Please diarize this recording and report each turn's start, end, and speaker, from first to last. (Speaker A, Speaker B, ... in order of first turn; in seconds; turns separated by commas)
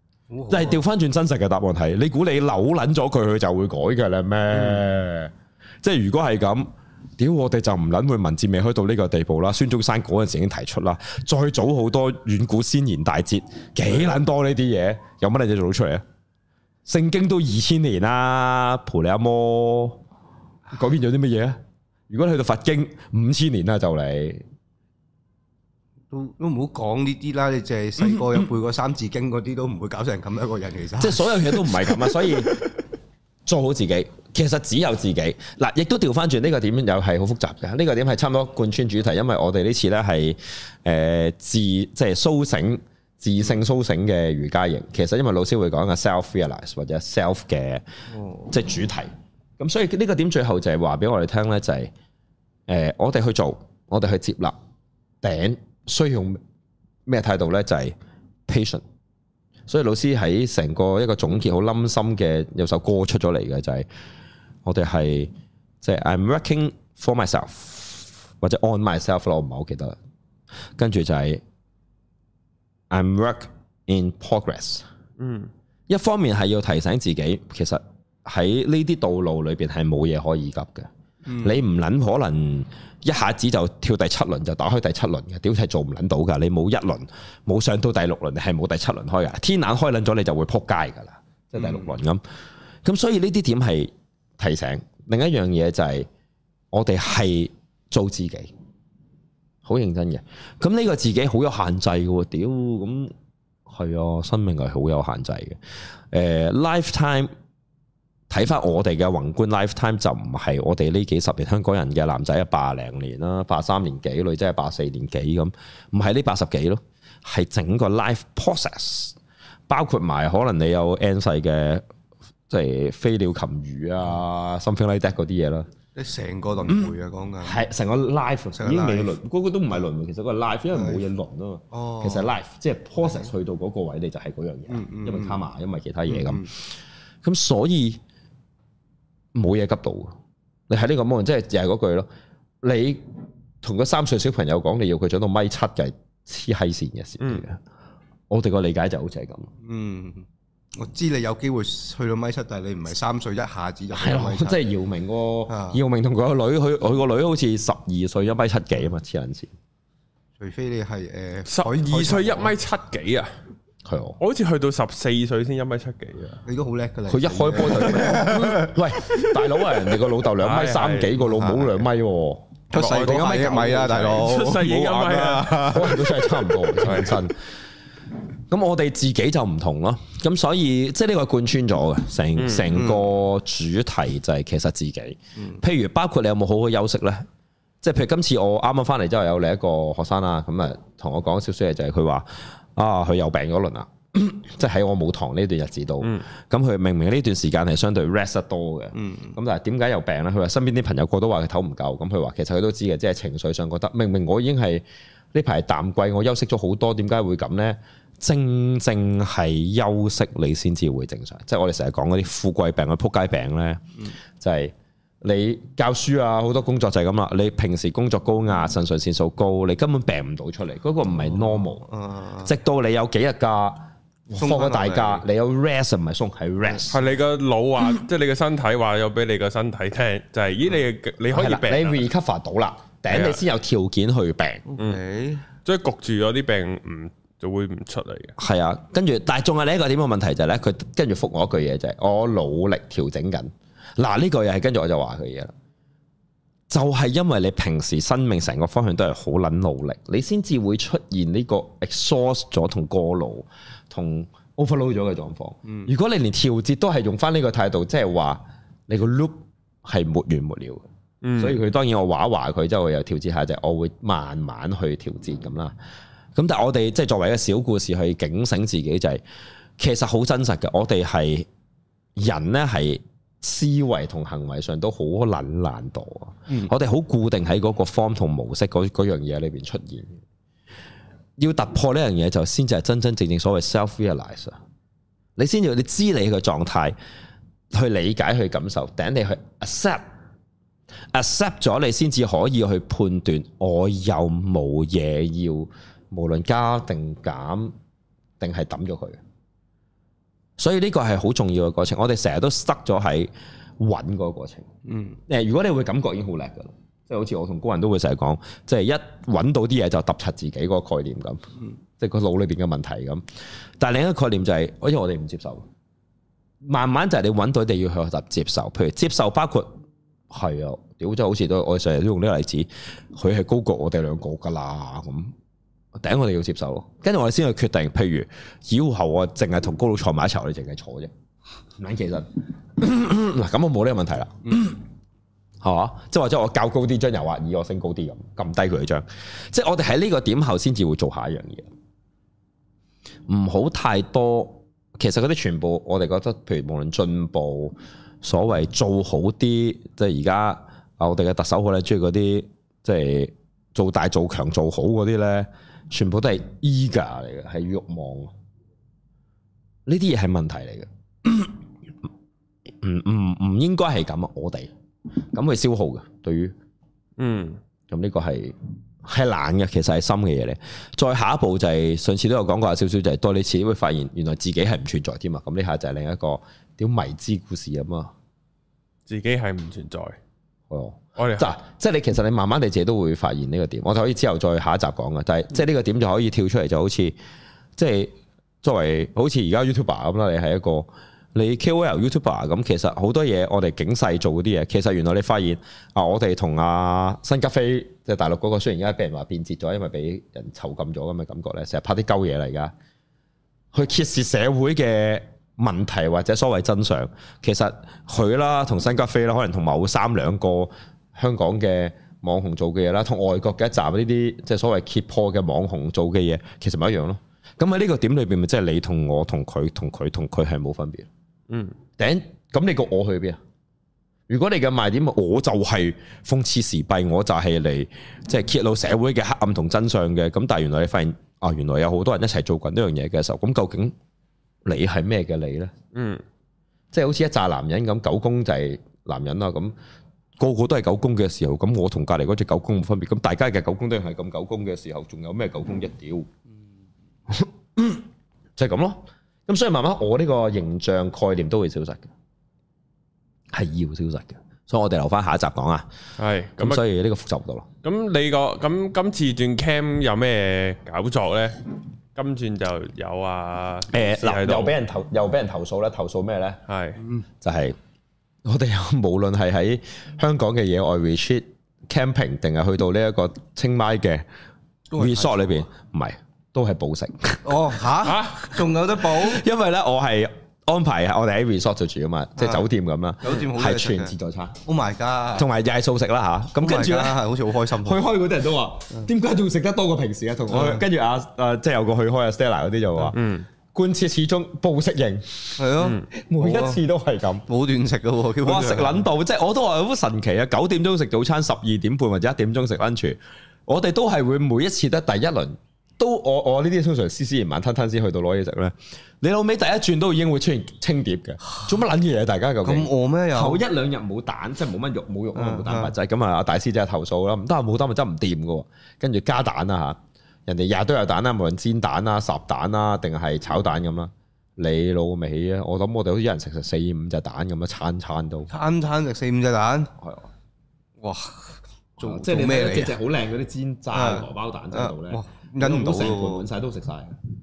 Speaker A: 0.3-0.8, Speaker B: 0.5-16.0, Speaker A: 4.6-4.8, Speaker B: 16.9-20.0, Speaker B: 20.7-21.6, Speaker B: 22.1-24.4, Speaker A: 26.1-32.4, Speaker B: 28.1-28.4, Speaker B: 31.0-32.6, Speaker B: 33.5-47.9, Speaker A: 48.1-48.5, Speaker B: 48.5-51.9, Speaker B: 52.7-54.6, Speaker B: 55.2-56.4, Speaker B: 57.1-57.9, Speaker B: 58.5-58.8, Speaker B: 59.7-63.9, Speaker B: 64.6-65.3, Speaker B: 65.8-70.0, Speaker B: 70.8-71.4, Speaker B: 72.9-74.8, Speaker C: 75.2-75.5, Speaker B: 75.9-80.9, Speaker A: 81.2-81.6, Speaker B: 81.4-92.2, Speaker A: 91.6-91.9, Speaker B: 92.8-96.1, Speaker B: 96.7-98.5, Speaker B: 99.6-103.1, Speaker B: 103.7-105.6, Speaker B: 106.1-107.3, Speaker B: 108.3-119.2, Speaker B: 119.7-121.8, Speaker B: 122.5-125.7, Speaker A: 126.0-127.6, Speaker B: 126.7-136.7, Speaker A: 128.6-129.1, Speaker A: 130.7-131.0, Speaker A: 131.7-132.3, Speaker A: 133.0-133.3, Speaker A: 134.7-135.4, Speaker A: 136.1-136.5, Speaker B: 137.2-138.0, Speaker B: 139.3-140.1, Speaker B: 140.7-142.1, Speaker B: 142.6-143.0, Speaker B: 143.6-147.6, Speaker B: 148.3-149.5, Speaker A: 149.6-150.2, Speaker A: 150.8-154.6, Speaker B: 153.9-159.5, Speaker A: 155.5-155.8, Speaker A: 160.4-162.6, Speaker C: 161.5-163.3, Speaker B: 163.8-164.2, Speaker C: 164.2-166.4, Speaker A: 166.4-169.3, Speaker B: 167.1-173.2, Speaker C: 170.4-171.2, Speaker A: 171.2-171.8, Speaker A: 172.7-176.4, Speaker C: 172.7-176.0, Speaker B: 175.6-177.4, Speaker C: 176.8-177.1, Speaker B: 178.5-187.3, Speaker C: 182.4-182.7, Speaker A: 182.7-183.1, Speaker B: 187.8-221.9, Speaker A: 198.9-199.4, Speaker A: 221.2-222.5, Speaker B: 222.4-227.0, Speaker A: 224.4-225.2, Speaker C: 226.9-232.1, Speaker B: 231.3-234.6, Speaker C: 233.1-233.4, Speaker A: 234.7-235.4, Speaker C: 235.6-238.3, Speaker B: 238.4-245.5, Speaker B: 246.7-260.8, Speaker C: 261.2-261.6, Speaker B: 261.4-265.8, Speaker B: 266.4-269.2, Speaker B: 269.8-271.5, Speaker B: 272.1-280.2, Speaker B: 281.4-284.6, Speaker B: 285.4-286.9, Speaker B: 287.7-290.0, Speaker B: 291.1-297.8, Speaker B: 298.4-299.2, Speaker B: 300.6-304.7, Speaker A: 304.9-305.2, Speaker B: 305.3-311.4, Speaker B: 312.0-313.2, Speaker B: 313.8-315.6, Speaker B: 316.6-319.8, Speaker B: 320.3-325.3, Speaker B: 325.9-331.1, Speaker B: 331.8-334.8, Speaker B: 335.6-341.7, Speaker B: 343.3-358.3, Speaker B: 359.9-361.6, Speaker B: 362.7-364.7, Speaker B: 365.3-366.6, Speaker C: 367.2-367.6, Speaker B: 367.9-378.1, Speaker C: 379.1-380.2, Speaker B: 380.7-387.1, Speaker C: 381.2-381.5, Speaker B: 387.8-402.7, Speaker B: 403.7-421.1, Speaker C: 421.5-421.8, Speaker B: 422.0-423.4, Speaker B: 424.3-433.9, Speaker B: 434.6-435.7, Speaker C: 435.9-436.2, Speaker B: 436.9-439.7, Speaker B: 440.4-446.3, Speaker B: 447.3-448.0, Speaker B: 448.6-452.1, Speaker B: 453.5-455.9, Speaker C: 456.2-456.8, Speaker B: 456.6-457.7, Speaker C: 457.8-461.6, Speaker C: 462.1-464.7, Speaker B: 463.9-466.6, Speaker C: 466.7-467.0, Speaker B: 467.4-467.8, Speaker B: 468.4-474.3, Speaker A: 474.9-475.6, Speaker B: 474.9-477.9, Speaker A: 477.4-479.4, Speaker C: 478.0-478.6, Speaker B: 479.0-484.6, Speaker A: 482.4-482.6, Speaker A: 483.2-484.1, Speaker A: 484.6-485.5, Speaker B: 485.4-487.2, Speaker A: 486.6-488.0, Speaker B: 487.8-493.2, Speaker A: 490.5-490.8, Speaker C: 493.1-493.5, Speaker B: 493.7-497.4, Speaker A: 495.6-496.8, Speaker C: 495.8-496.1, Speaker A: 497.5-499.1, Speaker B: 498.4-528.5, Speaker A: 512.6-513.6, Speaker A: 515.4-515.9, Speaker A: 528.5-529.9, Speaker B: 530.0-530.3, Speaker A: 531.0-533.0, Speaker B: 532.0-537.1, Speaker A: 533.9-536.5